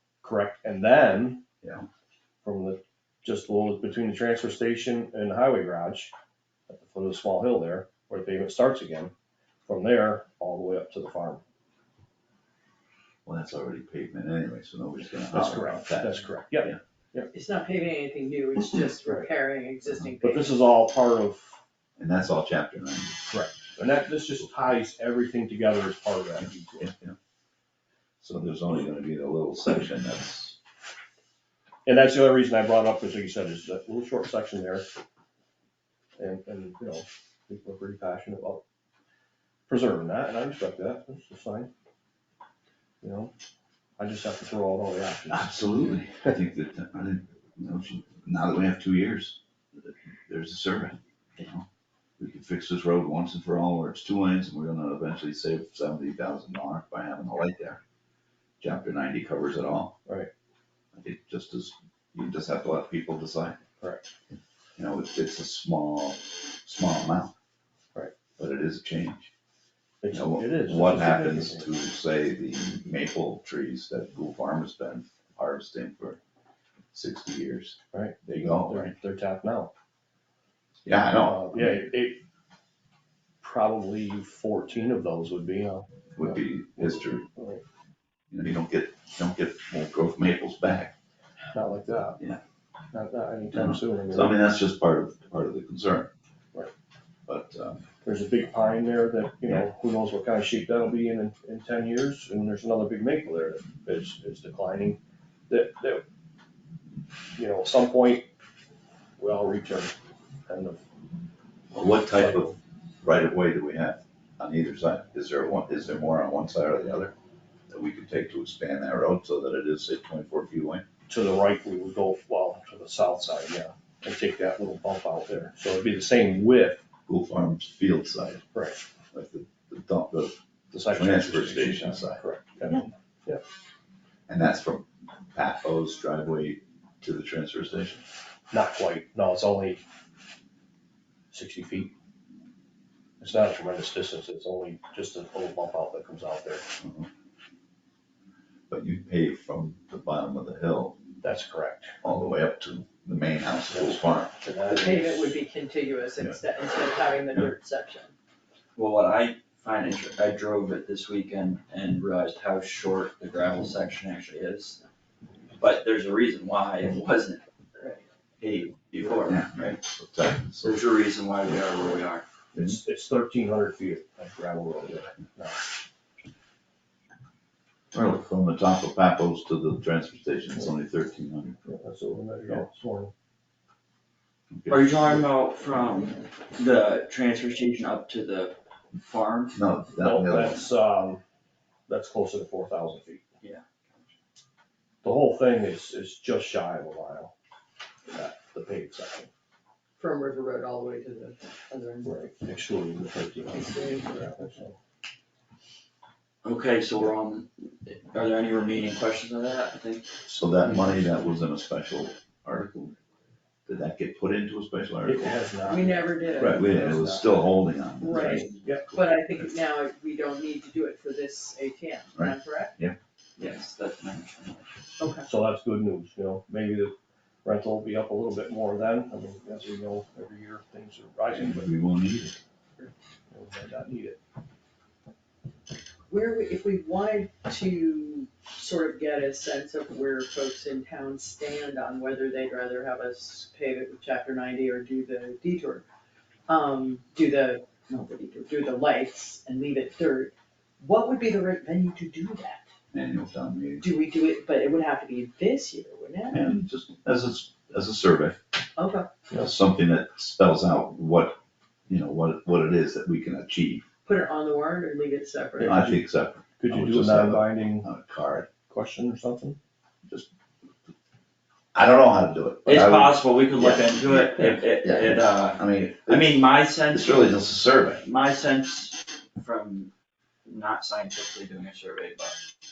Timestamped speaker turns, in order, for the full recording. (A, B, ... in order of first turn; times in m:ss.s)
0:00.2-0:01.4 A
0:01.6-0:01.9 B
0:02.4-0:06.1 A
0:06.7-0:09.1 A
0:09.7-0:11.4 A
0:13.3-0:16.8 B
0:15.3-0:17.3 A
0:17.3-0:20.5 C
0:20.2-0:21.6 A
0:22.0-0:23.2 B
0:23.3-0:26.9 A
0:26.8-0:27.2 B
0:28.2-0:30.6 B
0:31.9-0:34.9 A
0:36.2-0:38.6 A
0:39.7-0:41.7 A
0:43.0-0:43.3 A
0:44.0-0:45.6 A
0:45.3-0:51.7 B
0:52.2-0:57.8 B
0:58.6-1:00.0 B
1:00.9-1:03.6 B
1:03.8-1:04.1 A
1:04.8-1:07.3 B
1:08.4-1:09.3 B
1:10.0-1:11.7 A
1:10.1-1:16.2 B
1:16.9-1:18.9 B
1:17.9-1:19.7 A
1:20.8-1:21.9 B
1:21.2-1:22.2 A
1:23.4-1:27.6 A
1:26.2-1:27.3 B
1:28.3-1:30.9 B
1:31.5-1:32.2 A
1:32.9-1:34.4 A
1:33.5-1:36.1 B
1:37.3-1:37.8 B
1:38.0-1:46.0 A
1:47.4-1:48.3 A
1:49.2-1:50.0 A
1:50.5-1:50.8 A
1:51.7-1:57.1 B
1:52.1-1:52.6 A
1:57.7-2:00.8 B
2:01.1-2:06.8 A
2:07.1-2:08.4 B
2:08.5-2:08.8 A
2:09.1-2:10.4 B
2:10.7-2:13.4 A
2:10.9-2:12.2 B
2:14.3-2:18.0 B
2:18.5-2:19.8 A
2:21.3-2:21.9 A
2:23.2-2:26.7 A
2:26.8-2:27.1 B
2:28.7-2:31.0 B
2:31.2-2:32.0 A
2:32.0-2:34.4 B
2:33.7-2:35.4 A
2:34.7-2:38.1 C
2:38.8-2:44.8 D
2:45.6-2:47.4 D
2:48.4-2:49.8 D
2:49.3-2:50.8 B
2:50.6-2:52.2 D
2:52.6-2:55.6 A
2:57.9-3:01.6 B
3:01.6-3:03.1 A
3:04.5-3:05.2 B
3:04.7-3:09.6 D
3:09.6-3:10.7 B
3:10.0-3:11.2 A
3:11.9-3:13.2 A
3:13.4-3:14.1 D
3:15.0-3:17.3 A
3:18.1-3:19.3 A
3:20.0-3:22.1 C
3:22.0-3:24.8 A
3:23.5-3:24.1 C
3:26.4-3:30.1 D
3:30.3-3:33.0 B
3:33.7-3:35.4 B
3:35.0-3:37.5 A
3:35.7-3:36.6 C
3:36.4-3:38.5 B
3:38.0-3:42.8 C
3:42.2-3:43.0 B
3:43.4-3:44.8 D
3:45.0-3:45.3 C
3:45.3-3:51.7 A
3:51.3-3:52.4 B
3:53.3-3:54.2 A
3:56.1-4:05.8 C
4:06.5-4:12.7 C
4:12.9-4:13.8 B
4:13.8-4:16.6 C
4:16.3-4:18.4 B
4:18.8-4:19.1 C
4:19.3-4:23.8 B
4:24.0-4:25.8 C
4:25.6-4:28.5 B
4:26.6-4:27.9 A
4:28.7-4:29.6 A
4:31.7-4:38.1 B
4:32.7-4:37.4 D
4:38.0-4:39.9 D
4:40.5-4:42.4 D